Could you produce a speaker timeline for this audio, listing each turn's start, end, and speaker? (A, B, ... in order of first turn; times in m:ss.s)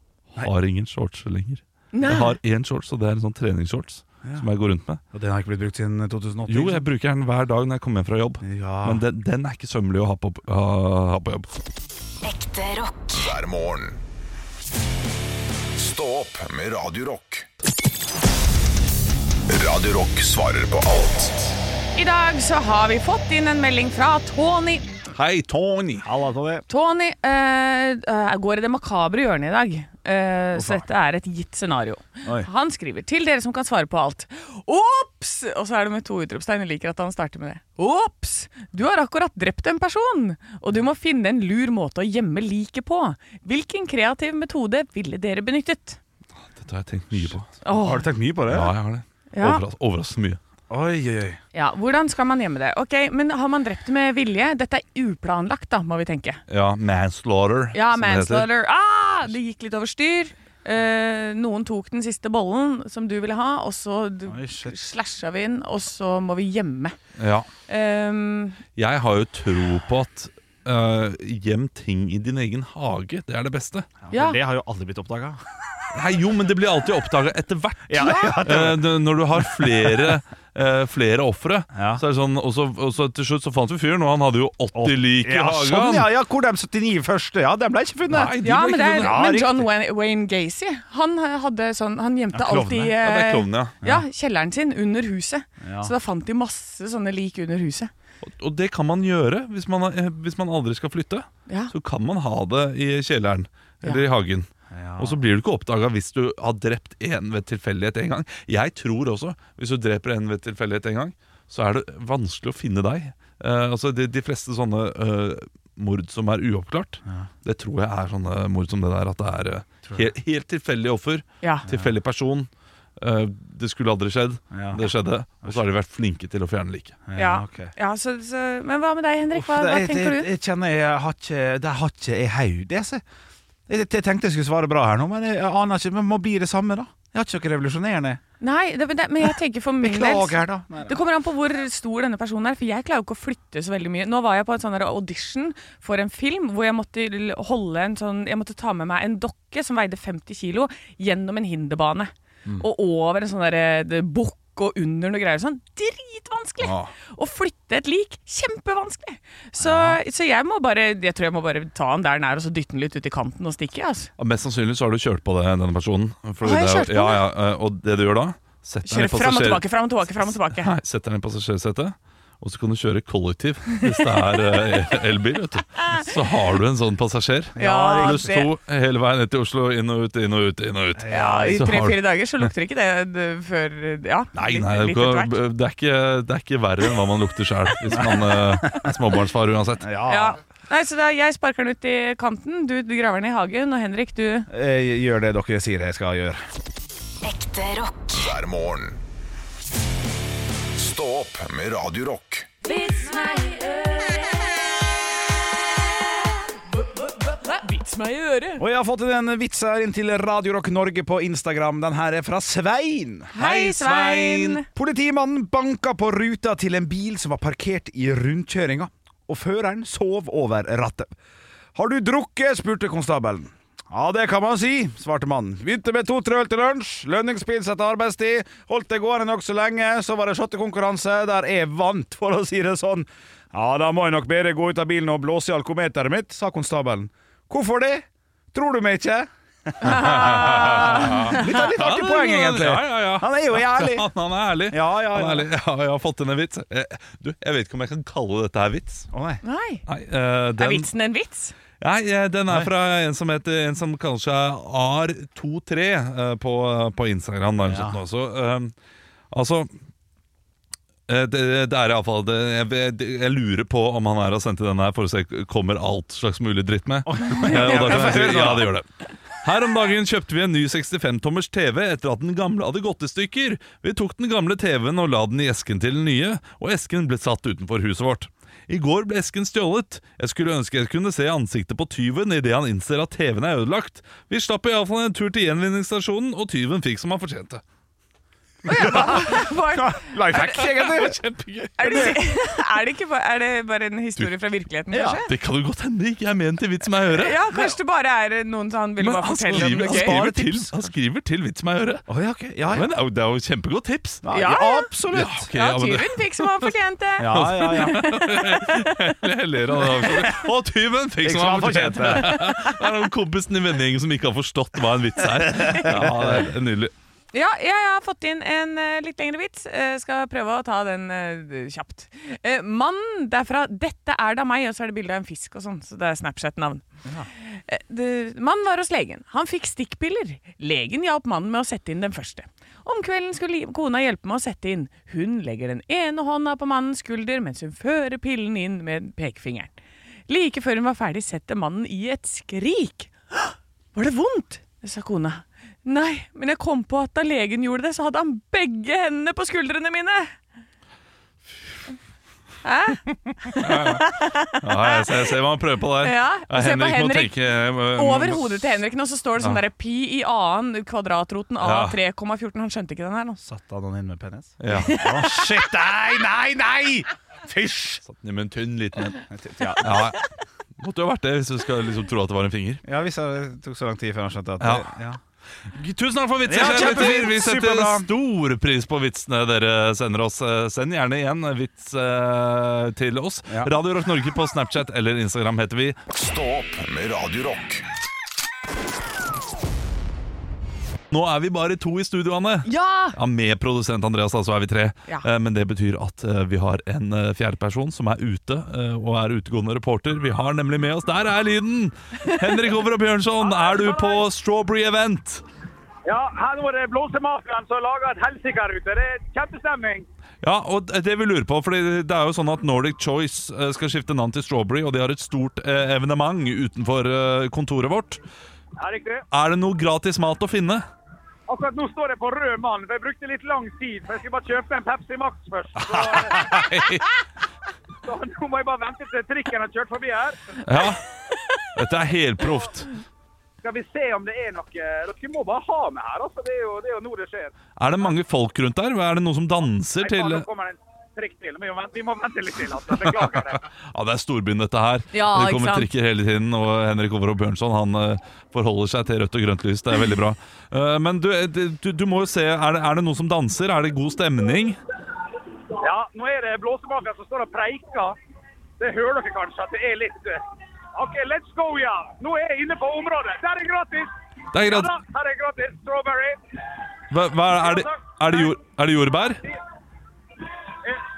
0:00.3-0:05.0 A
0:01.9-0:02.4 B
0:05.1-0:06.9 C
0:06.5-0:11.5 A
0:08.4-0:09.0 C
0:12.2-0:13.4 D
0:13.2-0:14.0 E
0:15.8-0:17.5 E
0:19.5-0:21.5 E
0:22.0-0:24.9 B
0:25.1-0:26.1 A
0:26.0-0:26.6 C
0:26.7-0:46.0 B
0:30.6-0:30.8 C
0:46.6-0:47.5 A
0:47.3-0:48.7 C
0:47.6-0:48.1 B
0:48.5-0:50.4 A
0:49.3-0:49.6 B
0:50.7-0:51.4 C
0:51.5-0:56.4 B
0:56.5-0:58.5 A
0:57.7-1:07.0 B
1:04.3-1:04.8 C
1:07.2-1:07.5 A
1:07.7-1:08.6 B
1:08.8-1:13.9 A
1:14.0-1:15.4 C
1:14.1-1:14.4 B
1:15.9-1:26.1 A
1:17.9-1:20.2 C
1:21.7-1:22.0 C
1:24.7-1:28.4 C
1:28.1-1:29.2 A
1:28.4-1:37.9 B
1:29.0-1:29.7 C
1:32.3-1:33.0 C
1:33.0-1:33.8 A
1:35.6-1:35.9 C
1:38.2-2:07.0 A
1:44.7-1:45.2 C
2:01.7-2:01.9 C
2:04.5-2:04.9 C
2:07.1-2:07.7 C
2:07.2-2:10.3 B
2:09.3-2:13.0 C
2:13.7-2:18.2 C
2:18.4-2:44.1 B
2:19.8-2:21.0 C
2:36.6-2:36.9 A
2:39.6-2:40.0 C
2:44.2-2:49.6 A
2:46.4-2:47.2 B
2:48.9-2:50.7 B
2:50.2-3:02.5 A
2:54.3-2:54.7 B
2:55.8-2:56.1 B
2:57.6-2:58.3 C
2:57.6-2:58.5 B
3:01.0-3:01.6 C
3:01.1-3:05.4 B
3:04.3-3:09.9 A
3:07.9-3:08.9 C
3:09.8-3:10.4 C
3:10.1-3:14.5 B
3:14.5-3:16.4 C
3:17.2-3:18.3 D
3:18.2-3:19.0 E
3:20.8-3:22.5 E
3:22.6-3:24.5 B
3:27.2-3:28.6 B
3:28.6-3:33.3 C
3:33.4-3:34.7 B
3:33.4-3:34.6 A
3:34.7-3:41.1 C
3:41.8-4:04.1 C
3:59.8-4:01.6 B
3:59.9-4:09.1 A
4:04.7-4:05.5 C
4:09.1-4:09.4 C
4:09.4-4:09.8 B
4:09.9-4:10.9 A
4:10.6-4:11.6 B
4:11.8-4:18.7 A
4:17.6-4:18.0 C
4:19.3-4:19.7 A
4:21.1-4:28.9 A
4:27.1-4:28.7 C
4:27.3-4:28.5 B
4:29.4-4:47.6 A
4:48.6-4:51.2 C
4:48.7-4:50.7 B
4:50.6-4:52.2 A
4:51.8-4:55.3 B
4:51.8-4:52.2 C
4:54.9-4:55.2 C
4:54.9-4:57.5 A
4:57.1-5:00.2 B
4:59.0-5:02.0 A
4:59.5-5:00.9 C
5:02.1-5:02.9 C
5:02.7-5:04.2 A
5:04.2-5:05.5 C
5:04.3-5:04.9 B
5:05.1-5:06.7 A
5:05.5-5:09.2 B
5:07.2-5:08.0 C
5:07.3-5:16.9 A
5:11.2-5:12.4 C
5:12.3-5:12.8 B
5:15.5-5:16.5 C
5:17.3-5:26.8 B
5:27.4-5:39.7 B
5:40.3-5:50.4 B
5:52.6-5:55.3 B
5:53.6-5:58.8 A
5:56.0-5:57.3 B
5:57.9-6:03.4 B
6:01.6-6:02.0 A
6:03.4-6:08.0 C
6:04.6-6:05.0 A
6:04.7-6:05.5 B
6:08.1-6:10.2 A
6:09.3-6:10.2 C
6:10.8-6:12.8 A
6:12.8-6:15.2 C
6:14.6-6:14.9 A
6:15.7-6:26.0 A
6:16.5-6:18.1 C
6:26.1-6:27.8 E
6:31.1-6:45.4 A
6:32.7-6:33.2 B
6:43.4-6:44.2 F
6:46.1-6:50.1 F
6:50.4-6:58.2 A
6:58.8-6:59.3 F
6:59.3-7:00.8 A
7:01.5-7:06.6 F
7:05.8-7:07.1 A
7:08.0-7:10.4 F
7:10.6-7:11.0 A
7:11.7-7:12.9 A
7:13.6-7:17.5 F
7:17.8-7:20.5 A
7:20.0-7:23.6 F
7:23.0-7:34.8 A
7:25.1-7:25.9 B
7:35.8-7:38.2 F
7:38.8-7:40.4 F
7:41.0-7:46.4 F
7:44.5-7:45.0 A
7:47.1-7:49.4 A
7:47.5-7:48.6 F